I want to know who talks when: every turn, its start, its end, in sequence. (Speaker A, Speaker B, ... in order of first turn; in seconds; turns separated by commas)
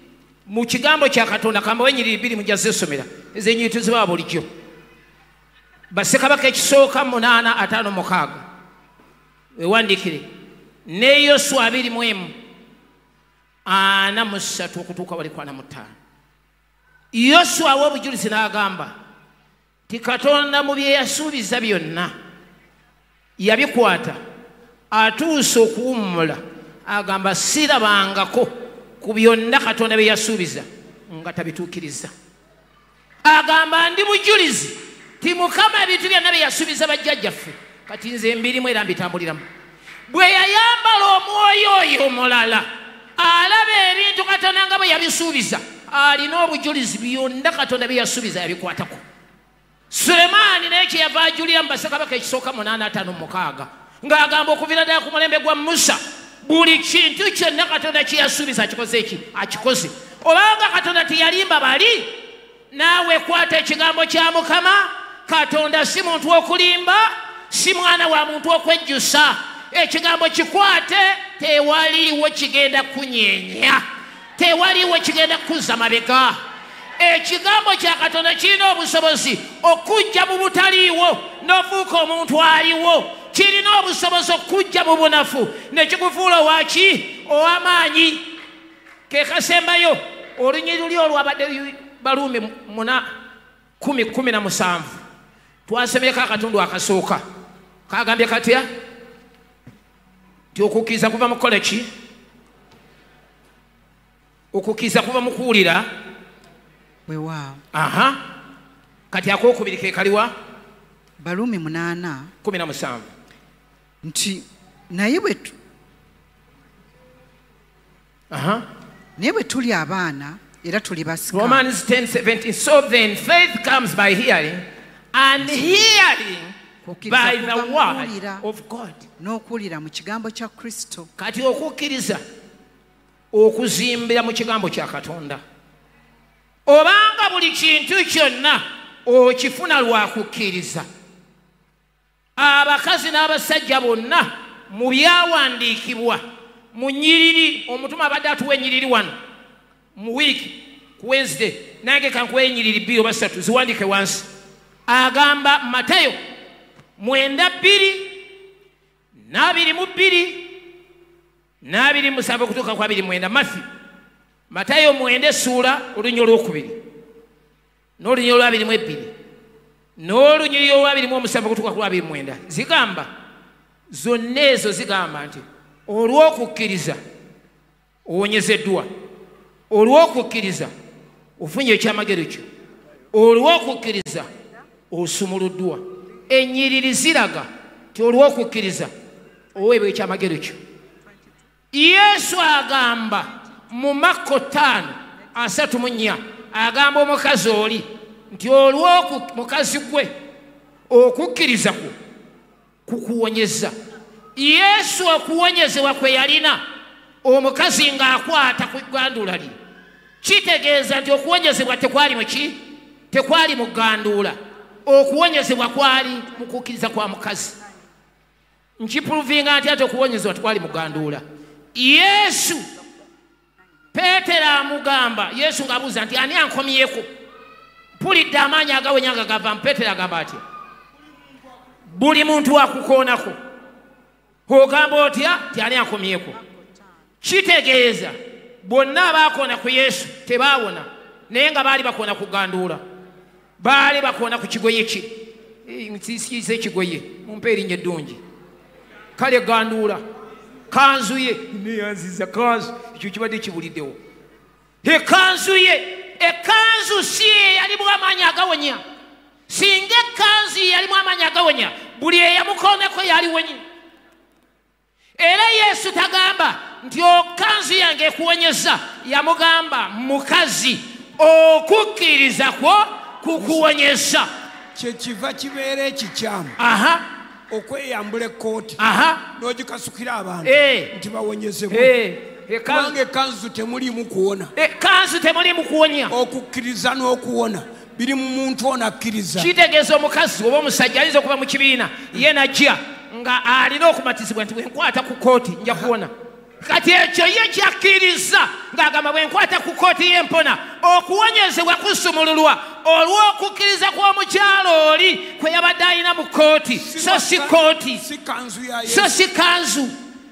Speaker A: 0.5-4.5, Speaker A: 5.9-8.4, Speaker A: 9.6-10.3, Speaker A: 10.9-12.3, Speaker A: 13.7-15.9, Speaker A: 17.1-18.9, Speaker A: 19.9-22.1, Speaker A: 23.4-24.2, Speaker A: 24.9-32.1, Speaker A: 33.2-39.4, Speaker A: 40.1-49.0, Speaker A: 49.9-62.2, Speaker A: 62.7-73.8, Speaker A: 74.4-76.4, Speaker A: 77.0-88.2, Speaker A: 89.1-93.1, Speaker A: 93.8-95.0, Speaker A: 95.7-97.2, Speaker A: 97.9-98.7, Speaker A: 100.5-101.9, Speaker A: 104.5-105.9, Speaker B: 107.1-107.6, Speaker A: 107.7-108.2, Speaker A: 109.1-110.3, Speaker B: 111.2-112.3, Speaker A: 112.4-113.1, Speaker B: 114.0-115.5, Speaker A: 118.3-118.6, Speaker B: 119.2-121.6, Speaker A: 121.3-129.0, Speaker B: 126.8-128.4, Speaker B: 129.2-131.1, Speaker A: 131.2-132.2, Speaker A: 133.3-135.4, Speaker A: 136.7-140.9, Speaker A: 142.4-146.2, Speaker A: 146.7-149.1, Speaker A: 149.9-154.3, Speaker A: 154.9-156.2, Speaker A: 157.0-158.2, Speaker A: 159.3-160.6, Speaker A: 161.6-163.7, Speaker A: 164.5-166.8, Speaker A: 168.0-169.1, Speaker A: 170.0-173.1, Speaker A: 173.9-177.0, Speaker A: 178.1-178.9, Speaker A: 179.7-180.7, Speaker A: 181.4-182.4, Speaker A: 183.1-184.3, Speaker A: 184.9-188.9, Speaker A: 189.6-190.6, Speaker A: 191.7-200.1, Speaker A: 200.9-201.9, Speaker A: 202.9-203.7, Speaker A: 204.4-206.6, Speaker A: 207.2-209.6, Speaker A: 210.2-217.6, Speaker A: 218.8-221.2, Speaker A: 221.7-222.7, Speaker A: 223.9-227.1, Speaker A: 228.0-230.4, Speaker A: 231.9-233.4, Speaker A: 234.5-236.4, Speaker A: 237.2-242.8, Speaker A: 243.6-248.2, Speaker A: 249.2-250.0, Speaker A: 250.7-254.0, Speaker A: 254.8-258.8, Speaker A: 259.5-263.6, Speaker A: 265.2-274.3, Speaker C: 274.7-276.6, Speaker A: 276.6-277.1, Speaker C: 277.5-278.8, Speaker A: 278.8-279.2, Speaker C: 279.3-281.9, Speaker A: 280.4-280.9, Speaker A: 281.7-283.0, Speaker C: 282.7-284.5, Speaker A: 284.6-286.1, Speaker C: 286.1-289.5, Speaker A: 289.4-308.0, Speaker C: 306.8-309.1, Speaker A: 308.9-309.9